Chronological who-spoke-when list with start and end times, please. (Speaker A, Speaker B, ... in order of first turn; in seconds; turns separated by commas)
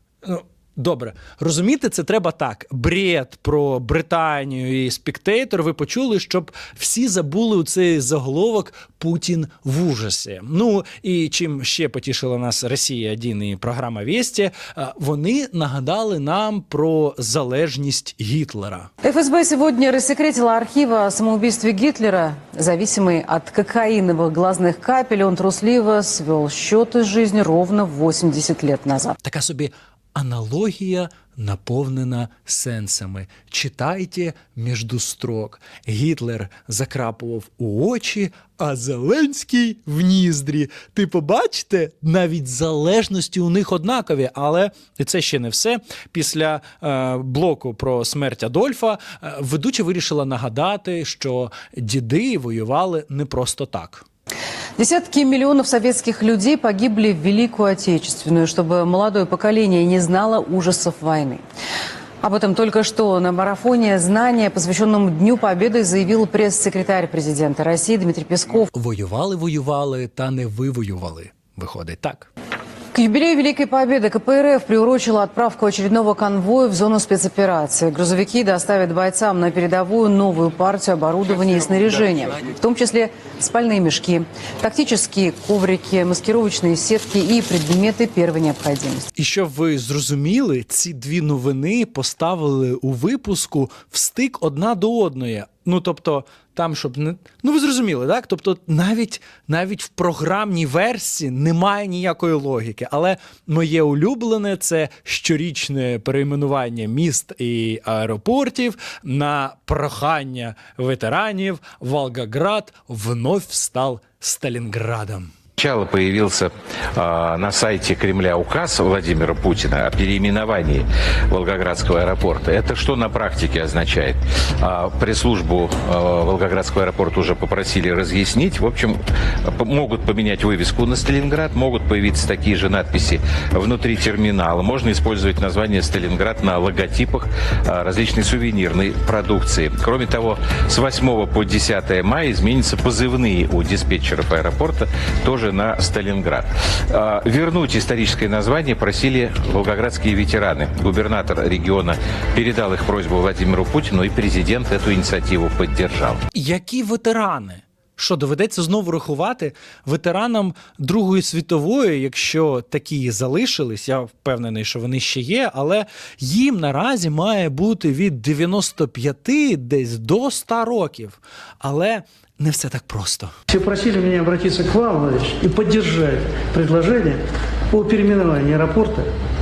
Speaker A: 0.2-18.9, Speaker B: 19.0-29.1, Speaker A: 29.2-54.0, Speaker B: 54.8-61.4, Speaker B: 62.2-68.7, Speaker A: 68.7-72.3, Speaker B: 72.9-89.1, Speaker A: 89.2-115.3, Speaker C: 115.6-156.2, Speaker A: 156.3-173.3, Speaker D: 173.5-177.2, Speaker D: 177.7-179.1